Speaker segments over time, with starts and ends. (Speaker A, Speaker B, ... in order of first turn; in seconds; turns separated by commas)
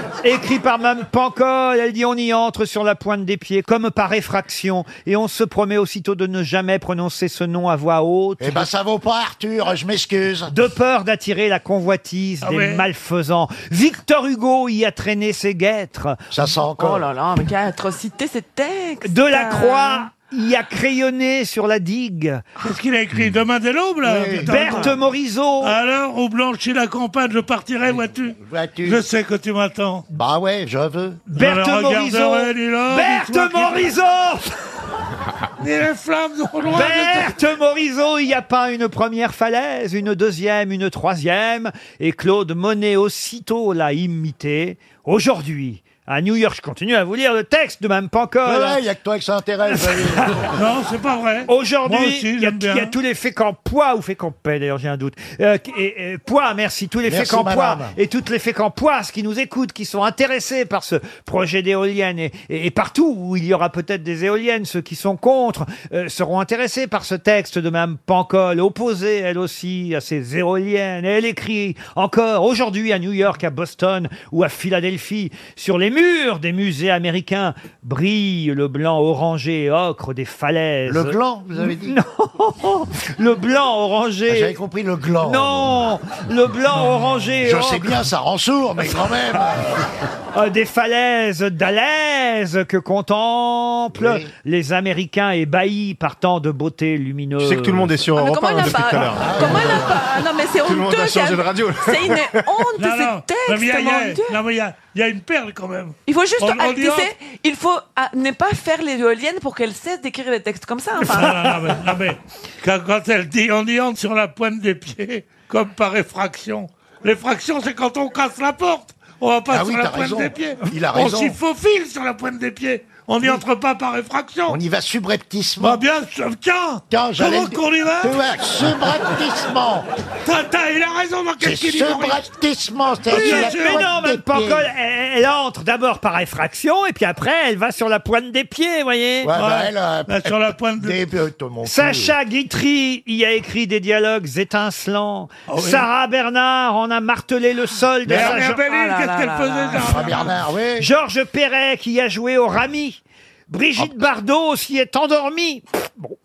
Speaker A: 0.2-8.7, Speaker B: 8.4-10.5, Speaker A: 10.5-16.2, Speaker C: 12.4-12.8, Speaker B: 16.3-17.1, Speaker D: 16.8-20.1, Speaker A: 19.1-22.4, Speaker C: 22.6-25.0, Speaker B: 24.1-24.9, Speaker A: 24.4-25.7, Speaker C: 25.6-30.1, Speaker B: 28.4-29.0, Speaker B: 30.1-31.2, Speaker C: 31.3-33.9, Speaker A: 31.4-34.5, Speaker C: 35.6-37.3, Speaker A: 36.7-48.8, Speaker B: 48.5-50.5, Speaker C: 50.5-52.9, Speaker A: 51.5-84.6, Speaker B: 57.0-57.9, Speaker B: 80.9-82.0, Speaker B: 84.3-85.8, Speaker A: 85.2-88.0, Speaker B: 87.4-89.8, Speaker A: 90.3-97.9, Speaker B: 94.0-94.3, Speaker E: 97.4-100.0, Speaker D: 98.1-104.4, Speaker B: 99.2-99.7, Speaker E: 100.6-102.2, Speaker C: 102.8-107.1, Speaker D: 106.1-111.8, Speaker C: 111.0-124.6, Speaker B: 119.5-121.4, Speaker B: 124.5-125.8, Speaker C: 125.6-128.2, Speaker B: 126.9-129.9, Speaker C: 130.2-132.3, Speaker B: 131.4-134.5, Speaker C: 133.1-133.9, Speaker A: 133.1-139.3, Speaker B: 139.2-142.2, Speaker C: 139.3-141.0, Speaker A: 141.6-148.6, Speaker C: 145.5-145.9, Speaker B: 148.1-148.3, Speaker C: 148.1-150.3, Speaker D: 148.7-150.0, Speaker B: 149.8-150.9, Speaker A: 150.8-156.2